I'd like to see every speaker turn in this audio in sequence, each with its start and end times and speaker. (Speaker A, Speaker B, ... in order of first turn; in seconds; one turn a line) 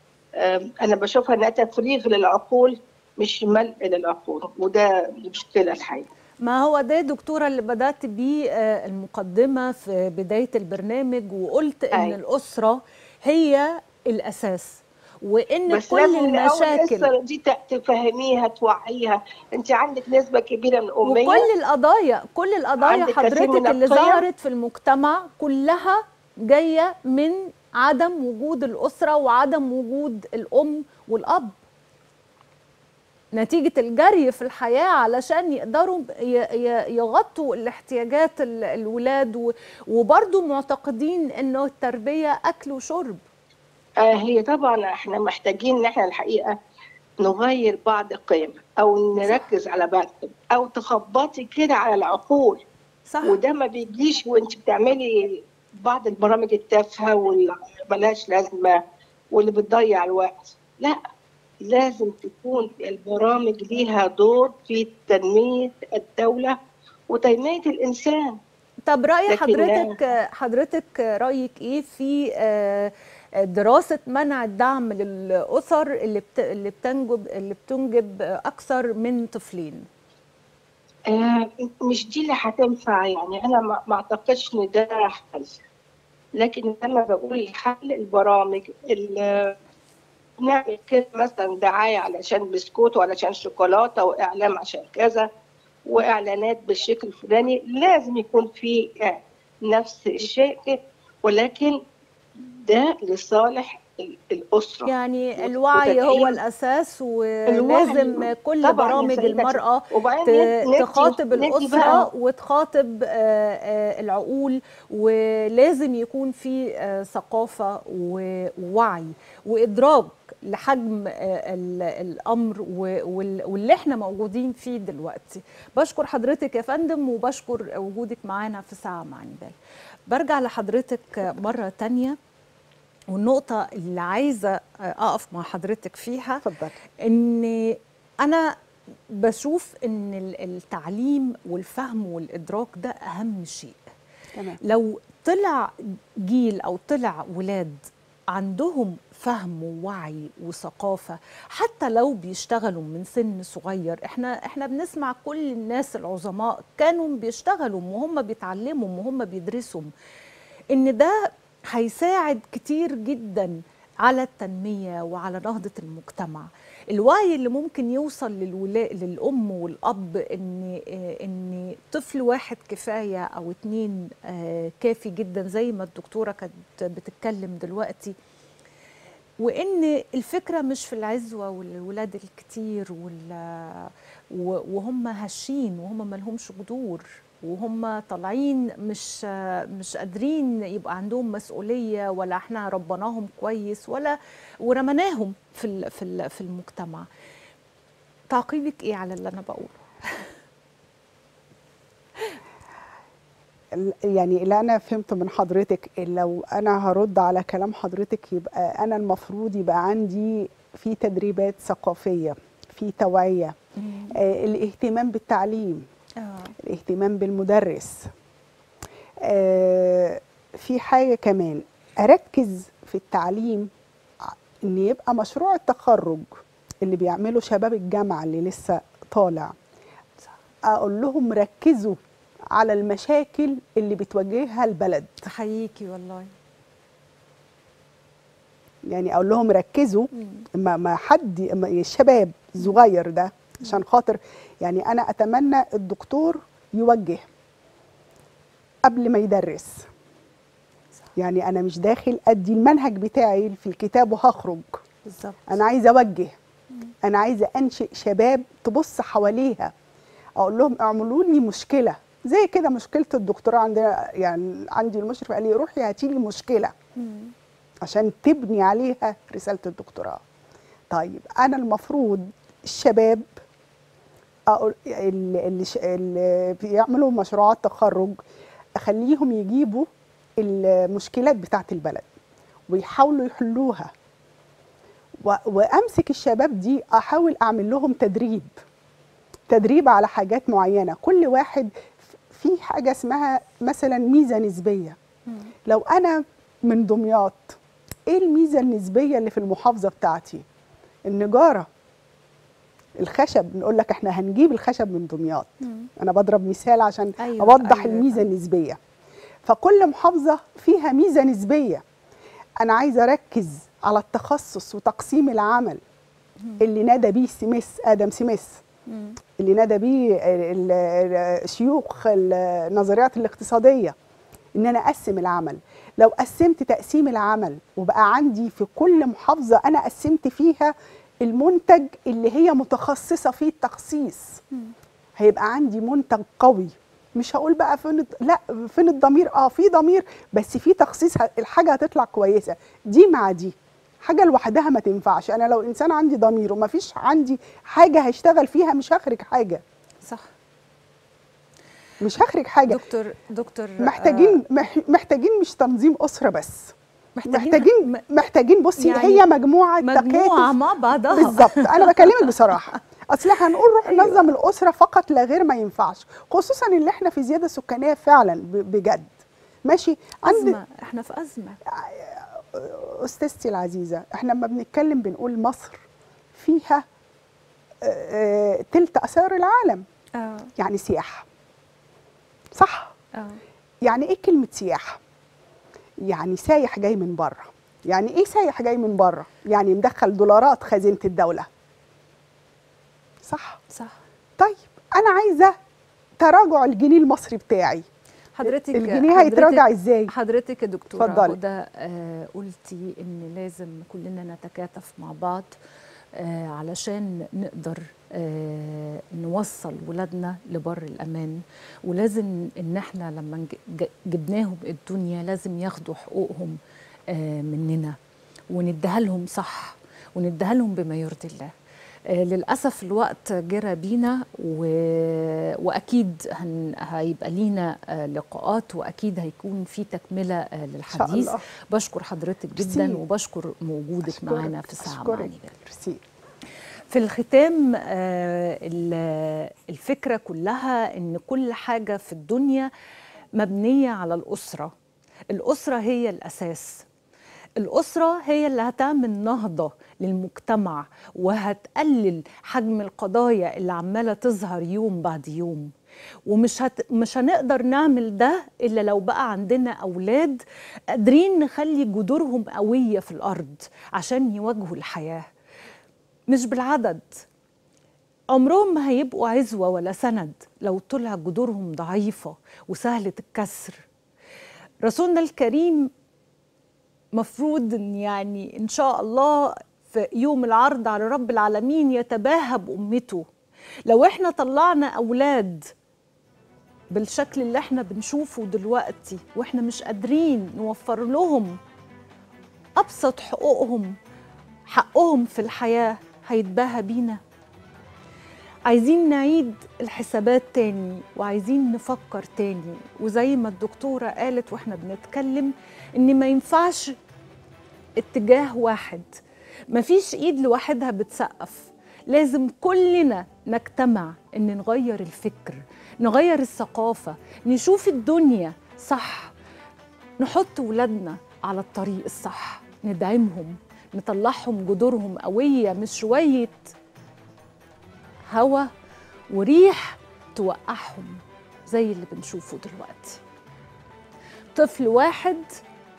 Speaker A: 0.3-6.1
Speaker B: 6.4-17.1
Speaker A: 15.7-21.5
Speaker B: 21.0-31.5
Speaker A: 22.8-24.2
Speaker B: 33.3-43.2
Speaker A: 44.0-46.6
Speaker A: 47.2-52.6
Speaker B: 49.2-49.5
Speaker B: 53.1-53.4
Speaker A: 53.2-58.8
Speaker A: 59.3-61.0
Speaker A: 61.6-66.5
Speaker A: 67.1-68.4
Speaker B: 68.8-79.8
Speaker A: 69.3-69.9
Speaker A: 81.1-85.6
Speaker A: 86.3-89.5
Speaker A: 90.4-95.3
Speaker A: 95.8-101.8
Speaker A: 102.4-106.4
Speaker B: 104.8-129.6
Speaker A: 107.5-112.0
Speaker B: 130.1-132.2
Speaker B: 133.1-136.4
Speaker C: 136.4-136.7
Speaker B: 137.0-138.5
Speaker B: 139.1-143.8
Speaker C: 144.3-144.6
Speaker B: 144.6-159.9
Speaker B: 160.7-161.2
Speaker B: 161.7-178.1
Speaker B: 179.4-197.1
Speaker B: 198.3-200.2
Speaker C: 203.7-213.5
Speaker B: 213.8-214.2
Speaker C: 214.1-215.8
Speaker B: 216.2-216.5
Speaker C: 216.6-218.1
Speaker C: 219.2-223.7
Speaker C: 224.2-229.5
Speaker C: 230.7-232.0
Speaker C: 232.5-235.2
Speaker B: 235.2-236.3
Speaker C: 238.8-247.3
Speaker B: 240.2-240.4
Speaker C: 248.8-249.9
Speaker C: 251.2-254.8
Speaker B: 255.1-255.6
Speaker C: 255.5-256.4
Speaker C: 257.0-259.7
Speaker C: 260.4-266.7
Speaker B: 267.0-267.3
Speaker C: 267.8-270.2
Speaker C: 270.9-273.3
Speaker C: 274.5-278.2
Speaker C: 278.8-282.1
Speaker C: 282.7-283.9
Speaker C: 285.2-288.5
Speaker C: 289.5-295.0
Speaker B: 295.3-295.5
Speaker C: 295.6-300.4
Speaker C: 301.1-301.7
Speaker C: 303.0-308.8
Speaker B: 305.6-305.9
Speaker B: 307.2-308.2
Speaker C: 309.4-311.8
Speaker C: 312.6-315.8
Speaker C: 316.6-318.6
Speaker B: 318.9-319.2
Speaker C: 319.4-323.9
Speaker C: 324.6-334.4
Speaker C: 335.2-349.6
Speaker C: 352.0-352.8
Speaker B: 352.7-354.4
Speaker C: 353.8-356.7
Speaker B: 357.2-358.0
Speaker C: 357.3-360.5
Speaker B: 358.8-359.2
Speaker B: 359.8-362.3
Speaker C: 361.1-369.1
Speaker B: 363.8-364.2
Speaker C: 369.6-370.6
Speaker B: 370.2-371.6
Speaker C: 371.6-376.8
Speaker C: 377.8-379.8
Speaker B: 380.2-380.5
Speaker C: 380.6-381.3
Speaker C: 382.5-382.9
Speaker B: 383.1-383.4
Speaker C: 383.8-385.0
Speaker C: 386.0-391.5
Speaker C: 393.2-393.6
Speaker B: 393.7-393.9
Speaker C: 394.4-395.5
Speaker C: 396.2-397.8
Speaker B: 398.3-405.5
Speaker C: 398.4-400.1
Speaker C: 401.0-401.4
Speaker B: 406.1-416.6
Speaker B: 417.1-418.0
Speaker B: 418.5-421.5
Speaker B: 422.1-435.6
Speaker C: 430.9-431.4
Speaker C: 432.6-433.0
Speaker C: 434.0-436.0
Speaker B: 436.9-442.7
Speaker B: 443.4-444.7
Speaker B: 445.3-446.9
Speaker B: 447.6-455.7
Speaker B: 456.3-460.4
Speaker B: 460.9-465.2
Speaker B: 466.3-467.2
Speaker B: 468.3-473.9
Speaker B: 474.8-475.9
Speaker B: 477.1-483.2
Speaker B: 483.9-485.7
Speaker B: 486.9-491.6
Speaker B: 492.8-494.0
Speaker B: 494.7-497.2
Speaker B: 498.7-506.9
Speaker B: 508.0-509.1
Speaker B: 509.7-519.3
Speaker B: 520.2-526.7
Speaker B: 528.3-528.7
Speaker B: 529.3-533.2
Speaker B: 534.5-535.5